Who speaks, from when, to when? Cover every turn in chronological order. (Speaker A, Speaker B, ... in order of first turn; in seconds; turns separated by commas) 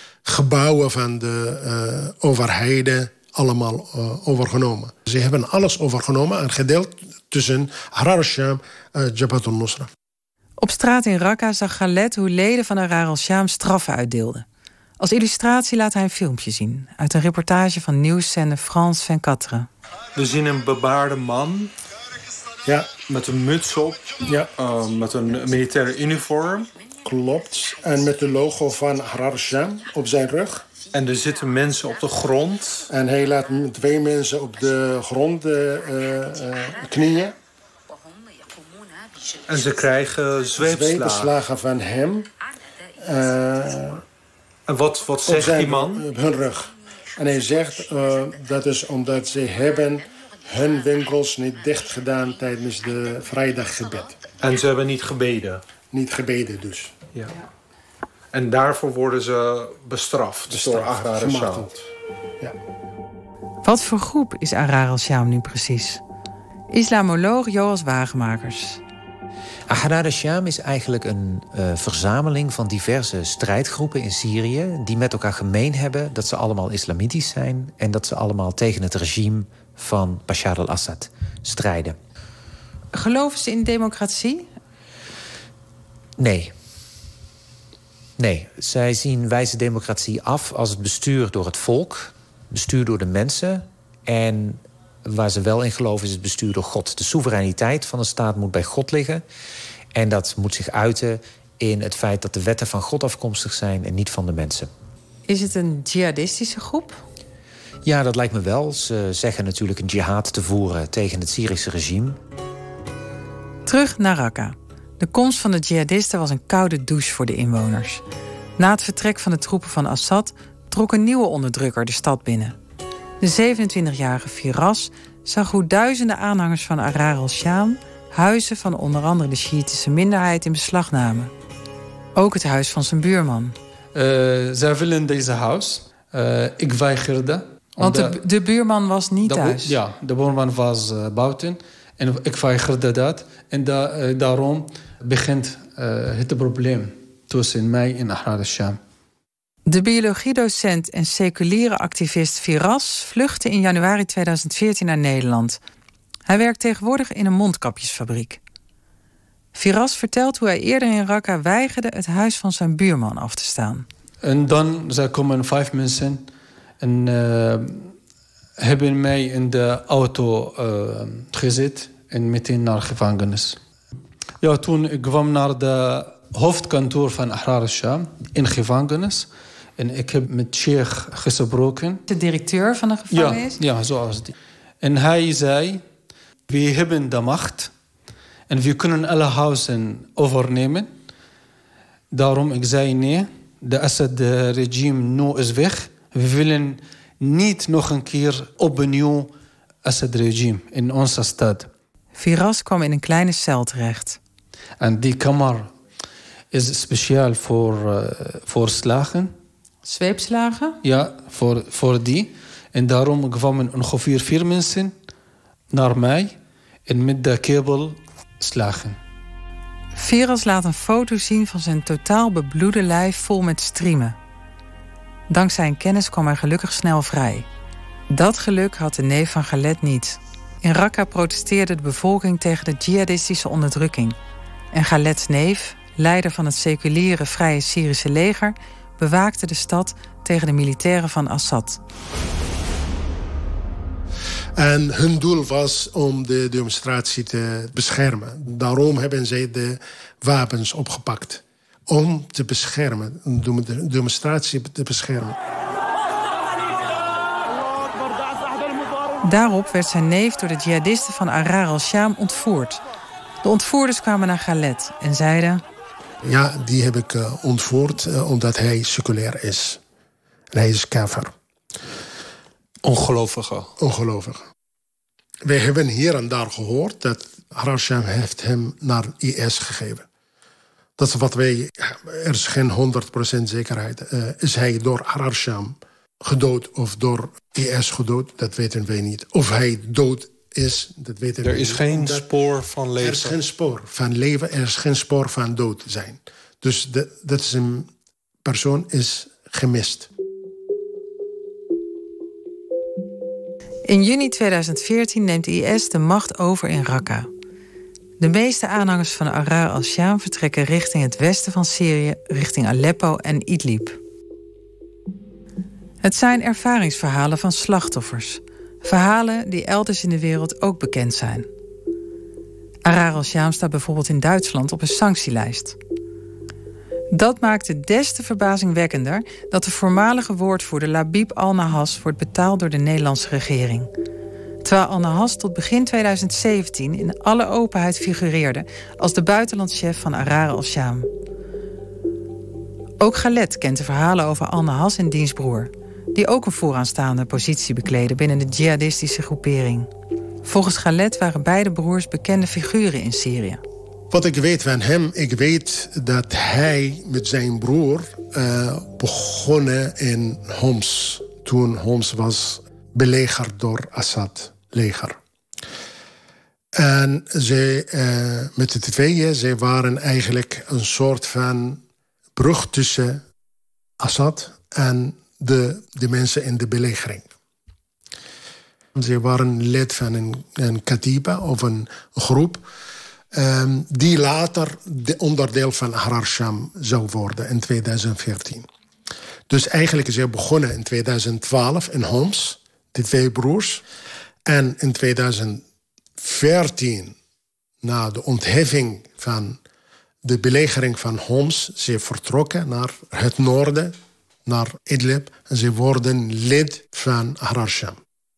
Speaker A: 0.2-9.9, Speaker B: 10.6-14.4, Speaker B: 15.0-19.7, Speaker C: 20.1-21.7, Speaker A: 22.6-22.9, Speaker C: 23.1-26.7, Speaker A: 27.0-30.7, Speaker C: 30.9-32.9, Speaker A: 32.9-37.3, Speaker C: 39.5-41.3, Speaker A: 40.5-42.3, Speaker A: 43.0-44.0, Speaker C: 44.7-46.0, Speaker A: 45.2-54.2, Speaker C: 54.4-55.6, Speaker A: 55.9-56.9, Speaker C: 58.3-61.7, Speaker A: 60.5-61.7, Speaker B: 63.6-66.0, Speaker B: 66.7-68.8, Speaker D: 69.7-82.0, Speaker B: 82.9-84.5, Speaker D: 86.2-86.5, Speaker D: 88.2-99.2, Speaker D: 99.9-104.7, Speaker B: 105.3-107.0, Speaker D: 107.8-112.2, Speaker B: 113.7-118.0, Speaker B: 118.6-122.5, Speaker B: 123.2-131.3, Speaker B: 132.2-133.5, Speaker E: 133.9-138.2, Speaker B: 137.8-139.7, Speaker E: 139.2-148.8, Speaker B: 149.7-155.6, Speaker B: 156.3-158.4, Speaker B: 159.5-163.8, Speaker E: 164.2-166.3, Speaker E: 166.8-167.9, Speaker E: 168.6-173.6, Speaker E: 174.4-182.0, Speaker B: 182.1-183.6, Speaker E: 183.1-185.8, Speaker E: 186.5-187.7, Speaker E: 188.5-190.9, Speaker E: 192.1-199.3, Speaker E: 199.8-201.7, Speaker B: 202.1-204.2, Speaker E: 204.8-205.7, Speaker E: 206.5-209.3, Speaker B: 209.8-210.8, Speaker E: 210.8-214.9, Speaker E: 215.7-216.3, Speaker E: 216.8-219.0, Speaker B: 219.9-224.2, Speaker B: 225.3-227.4, Speaker B: 228.1-234.2, Speaker B: 234.7-241.8, Speaker A: 244.6-255.4, Speaker B: 259.2-262.8, Speaker B: 263.4-265.6, Speaker A: 266.2-269.8, Speaker A: 270.5-271.3, Speaker C: 272.8-273.7, Speaker A: 273.8-274.4, Speaker A: 275.4-280.1, Speaker A: 281.0-292.3, Speaker C: 291.4-293.4, Speaker A: 293.0-297.9, Speaker A: 298.4-300.1, Speaker B: 303.9-307.3, Speaker B: 308.2-314.0, Speaker B: 316.0-321.5, Speaker B: 322.8-325.8, Speaker B: 327.1-333.9, Speaker B: 334.6-341.1, Speaker B: 343.0-349.9, Speaker B: 350.4-353.6, Speaker A: 354.1-365.2, Speaker A: 366.8-371.8, Speaker A: 372.4-373.2, Speaker A: 374.0-377.3, Speaker A: 378.9-382.6, Speaker A: 383.3-388.6, Speaker A: 389.5-393.8, Speaker A: 394.4-395.6, Speaker A: 396.2-397.1, Speaker A: 397.8-399.6, Speaker A: 400.2-403.9, Speaker A: 404.4-408.0